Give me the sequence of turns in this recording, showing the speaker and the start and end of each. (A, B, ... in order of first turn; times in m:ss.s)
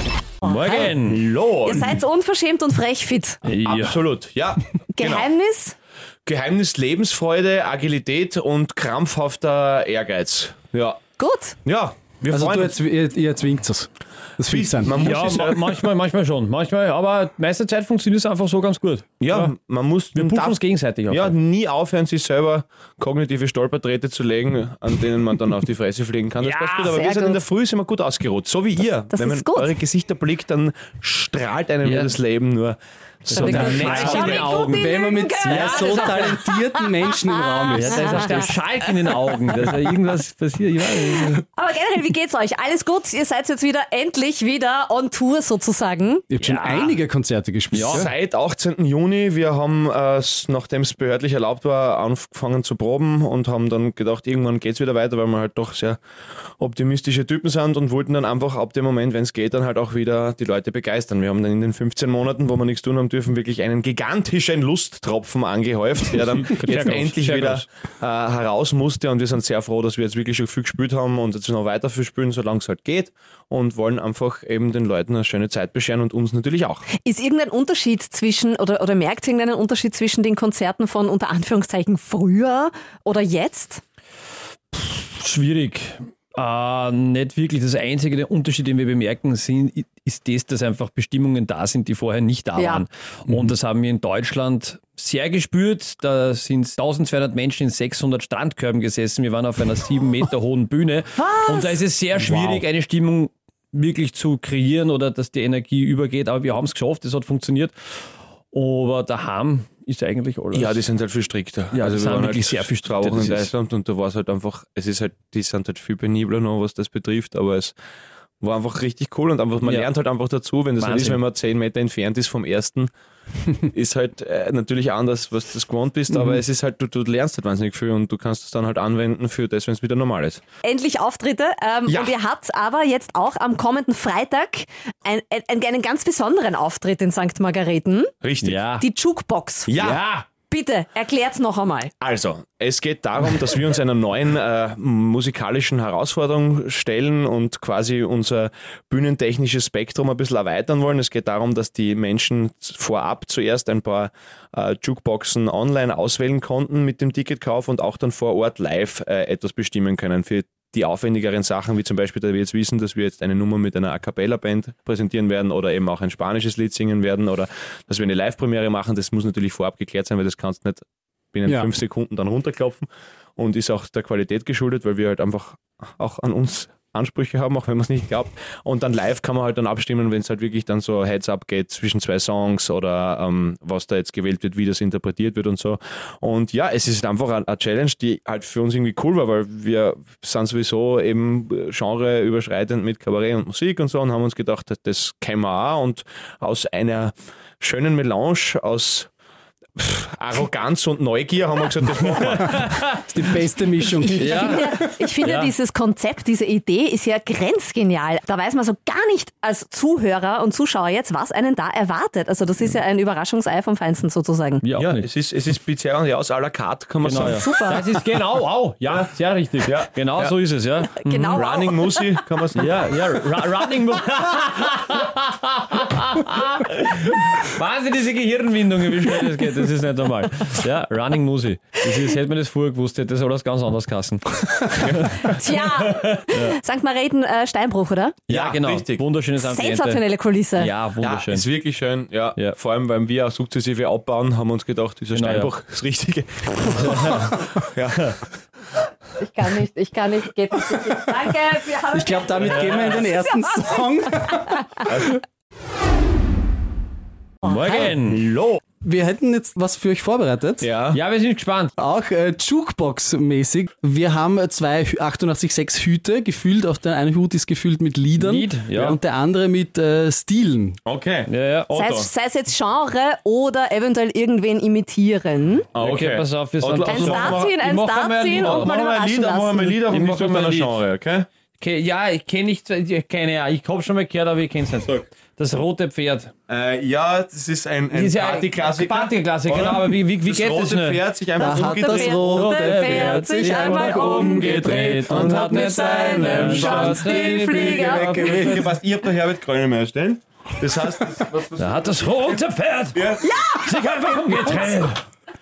0:00.4-0:00.9 A
0:00.4-0:01.2 B
0:00.9-0:02.0 C
0:01.6-0:03.4 A
0:03.4-0:04.0 B
0:03.6-0:05.3 C
0:05.0-0:05.8 A
0:06.3-0:11.0 C
0:11.2-0:11.6 A
0:11.6-0:12.8 C
0:12.3-0:15.1 D
0:14.5-0:15.7 C
0:15.0-0:19.5 B
0:19.2-0:20.6 C
0:20.1-0:21.4 B
0:21.1-0:34.6 C
0:26.4-0:27.0 B
0:26.9-0:27.4 A
0:29.1-0:29.8 A
0:31.8-0:32.2 B
0:33.3-0:36.4 B
0:33.4-0:38.5 A
0:33.4-0:33.9 D
0:34.6-0:38.4 D
0:37.8-0:41.4 B
0:41.2-0:46.4 A
0:46.3-0:48.1 D
0:46.4-0:47.0 B
0:47.7-0:48.1 B
0:47.8-0:56.0 C
0:56.6-1:16.9 C
1:06.1-1:07.7 B
1:17.0-1:23.8 A
1:24.7-1:47.7 B
1:32.6-1:32.8 A
1:41.2-1:41.8 A
1:48.5-1:50.8 B
1:50.5-1:57.8 C
1:51.7-1:53.5 B
1:58.4-2:02.9 C
1:59.6-1:59.9 B
2:00.8-2:01.2 B
2:03.6-2:10.4 C
2:10.6-2:18.1 A
2:11.9-2:12.1 C
2:18.2-2:18.6 C
2:18.4-2:18.9 B
2:18.8-2:19.7 A
2:19.7-2:20.1 C
2:19.8-2:20.3 B
2:20.4-2:21.9 A
2:22.0-3:19.1 C
3:19.8-3:22.7 C
3:22.5-3:23.0 B
3:23.1-3:25.1 D
3:24.0-3:34.6 A
3:24.2-3:25.5 B
3:34.6-3:35.1 B
3:34.8-3:37.5 C
3:37.0-3:41.4 B
3:37.2-3:37.8 A
3:39.6-3:40.3 C
3:41.0-3:42.2 A
3:41.4-3:42.8 C
3:42.6-3:56.6 B
3:55.2-3:58.2 A
3:58.3-4:01.5 B
3:58.3-3:59.1 C
3:59.4-4:00.7 A
4:01.0-4:08.2 C
4:05.1-4:05.5 B
4:06.8-4:07.3 B
4:09.2-4:13.6 A
4:11.9-4:14.6 D
4:12.4-4:13.1 B
4:14.5-4:14.8 A
4:14.9-4:15.2 C
4:17.4-4:18.2 B
4:18.1-4:18.6 C
4:18.8-4:20.7 D
4:20.6-4:21.0 C
4:20.9-4:21.8 B
4:21.8-4:30.8 D
4:28.2-4:29.0 B
4:30.8-4:32.1 C
4:31.3-4:31.7 B
4:31.7-4:35.7 A
4:35.7-4:37.6 C
4:35.8-4:38.8 B
4:36.8-4:39.8 A
4:38.4-4:41.3 C
4:39.8-4:40.7 B
4:41.6-4:46.3 B
4:46.5-4:52.4 C
4:47.9-4:51.0 B
4:51.4-4:58.6 A
4:51.4-4:58.7 D
4:52.2-4:58.0 B
4:55.0-4:55.5 C
4:56.2-5:02.4 C
5:01.6-5:05.0 B
5:02.9-5:03.4 C